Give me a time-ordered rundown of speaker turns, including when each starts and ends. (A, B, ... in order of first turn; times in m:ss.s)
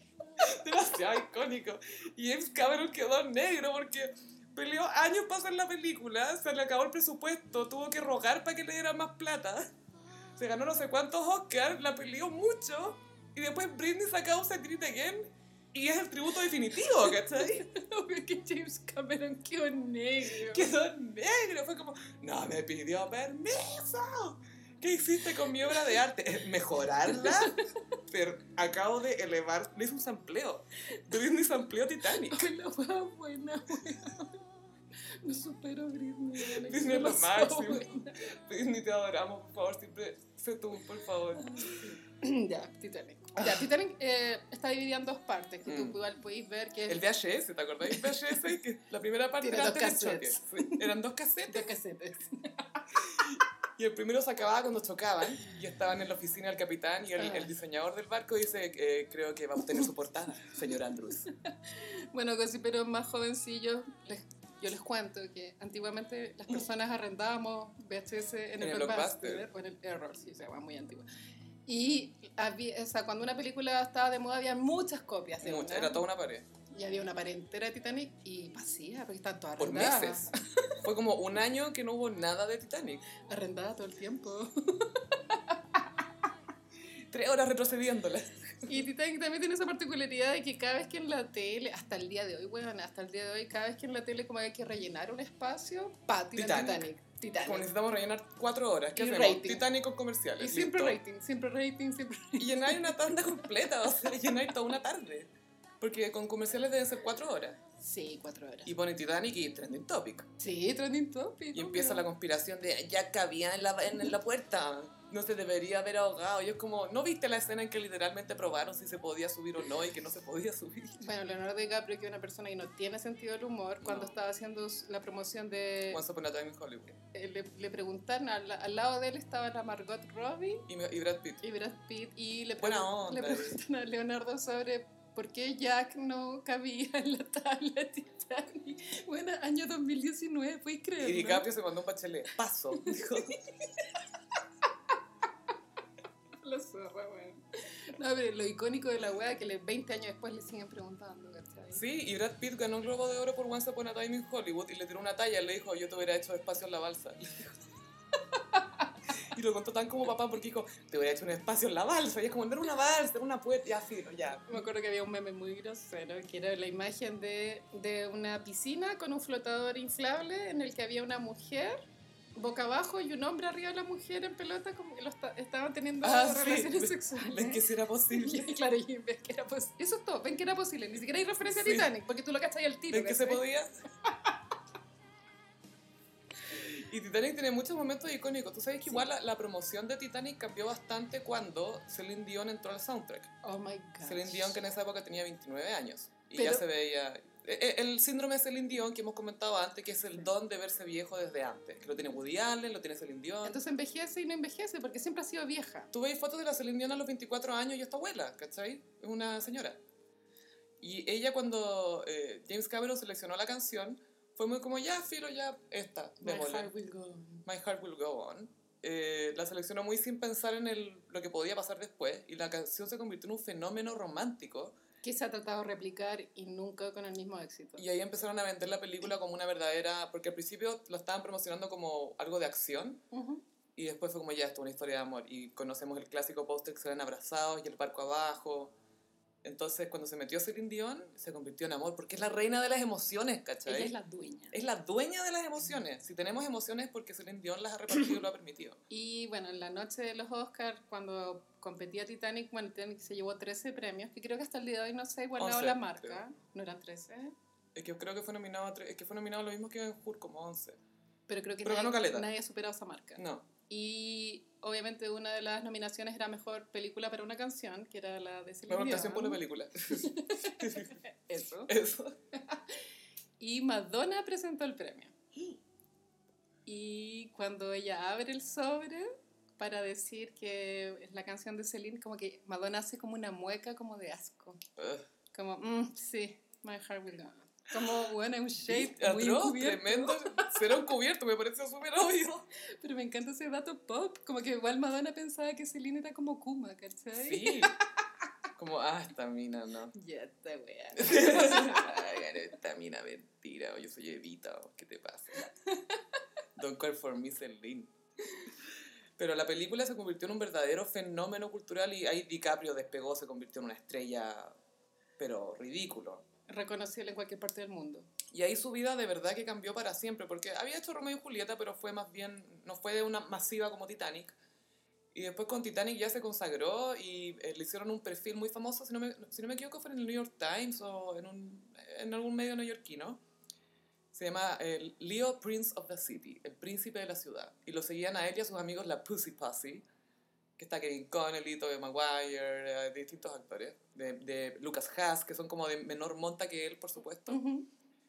0:00.4-0:09.7 A
0:10.4-0:17.6 A
0:16.9-0:20.7 B
0:20.2-0:32.4 A
0:25.6-0:25.9 B
0:27.1-0:27.7 B
0:32.1-0:34.4 B
0:35.2-0:38.2 B
0:36.4-0:41.8 A
0:41.4-0:47.0 B
0:43.4-0:43.7 A
0:45.6-0:46.0 A
0:46.9-0:51.7 A
0:47.9-0:48.3 B
0:49.4-0:50.9 B
0:51.5-0:52.9 B
0:53.1-1:01.3 A
0:57.2-0:57.5 B
1:01.2-1:11.0 B
1:08.6-1:09.5 A
1:11.6-1:16.0 B
1:15.4-1:16.4 A
1:16.7-1:20.4 B
1:19.6-1:20.3 A
1:20.8-1:23.0 A
1:23.3-1:26.0 B
1:27.1-1:28.8 A
1:28.7-1:37.7 B
1:36.3-1:36.9 A
1:37.4-1:41.0 A
1:38.9-1:39.7 B
1:40.4-1:44.1 B
1:42.4-1:47.6 A
1:47.8-1:48.7 B
1:48.6-1:50.3 A
1:50.4-1:52.0 B
1:51.5-2:01.0 A
2:01.0-2:06.0 B
2:03.8-2:04.2 A
2:05.9-2:06.9 A
2:07.1-2:10.7 B
2:10.7-2:11.4 A
2:11.4-2:21.5 B
2:12.6-2:13.6 A
2:21.0-2:23.4 A
2:22.8-2:24.0 B
2:26.4-2:31.8 B
2:31.7-2:37.6 A
2:38.3-2:38.9 B
2:39.1-2:44.5 A
2:44.5-2:51.8 B
2:52.3-3:03.4 B
2:56.0-2:58.6 A
3:01.4-3:01.9 A
3:02.9-3:03.7 A
3:06.4-3:13.3 A
3:13.4-3:14.6 B
3:14.0-3:23.6 A
3:16.4-3:16.6 B
3:23.4-3:25.9 B
3:25.9-3:29.8 A
3:30.8-3:36.7 A
3:36.2-3:37.4 B
3:37.4-3:44.7 A
3:45.0-3:47.8 B
3:47.8-3:53.0 A
3:53.1-3:53.4 B
3:53.8-3:58.7 A
3:59.4-4:03.9 A
4:03.6-4:04.6 B
4:04.5-4:08.8 A
4:08.9-4:17.3 B
4:15.4-4:16.2 A
4:17.7-4:20.8 A
4:21.3-4:31.7 B
4:21.6-4:22.3 A
4:23.2-4:23.5 A
4:28.7-4:31.0 A
4:31.7-4:32.1 A
4:32.3-4:32.6 B
4:33.4-4:35.1 B
4:36.6-4:44.6 B
4:44.8-4:45.0 A
4:45.3-4:50.8 B
4:48.6-4:52.4 A
4:52.6-4:57.9 B
4:57.1-4:57.8 A
4:58.6-4:59.9 A
4:59.9-5:02.3 B
5:01.0-5:05.5 A
5:05.5-5:06.0 B
5:06.6-5:07.9 A
5:09.2-5:14.5 A
5:15.2-5:16.2 A
5:16.5-5:18.1 B
5:18.3-5:24.4 A
5:25.1-5:33.2 A
5:34.1-5:39.8 A
5:40.6-5:47.4 A
5:47.3-5:47.7 B